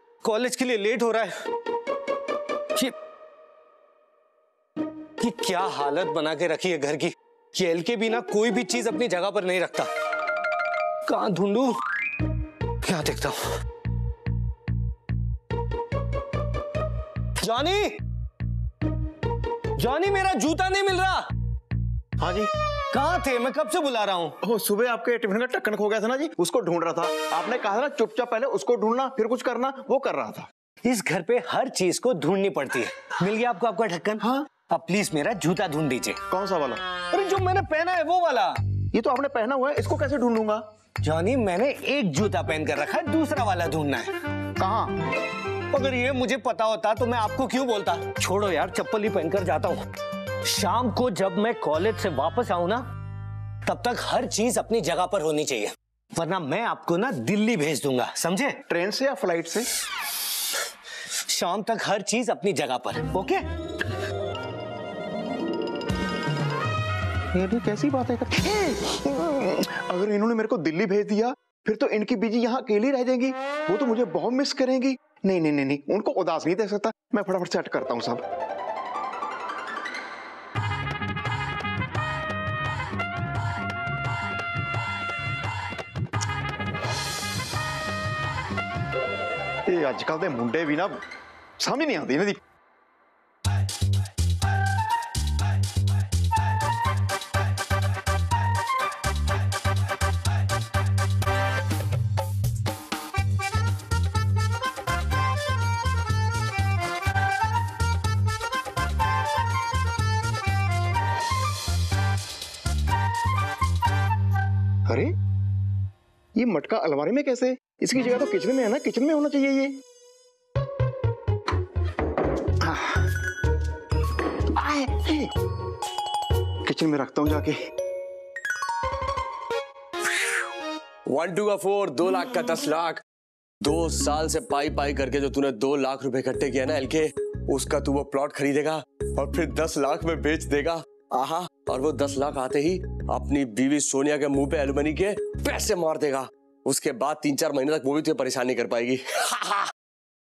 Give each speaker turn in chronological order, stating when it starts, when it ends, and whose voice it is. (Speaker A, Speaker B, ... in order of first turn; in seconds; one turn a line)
Speaker A: 0.2-1.3
Speaker A: 5.2-9.9
Speaker A: 11.1-11.7
Speaker A: 12.8-13.4
Speaker A: 17.4-17.9
Speaker A: 19.8-21.2
Speaker B: 22.2-22.5
Speaker A: 22.9-24.4
Speaker B: 24.4-30.5
Speaker A: 30.8-36.2
Speaker B: 34.2-34.5
Speaker B: 36.3-36.8
Speaker A: 37.1-38.6
Speaker B: 38.9-40.6
Speaker A: 41.0-44.1
Speaker B: 44.6-44.9
Speaker A: 45.7-49.8
Speaker A: 50.5-52.8
Speaker A: 53.6-58.6
Speaker B: 58.7-59.7
Speaker A: 61.3-63.4
Speaker B: 67.3-78.2
Speaker B: 89.7-91.0
Speaker B: 91.6-92.4
Speaker B: 114.9-115.1
Speaker B: 116.3-119.8
Speaker B: 122.6-123.0
Speaker B: 124.5-125.3
Speaker B: 126.6-127.5
Speaker C: 131.1-133.0
Speaker C: 133.6-149.7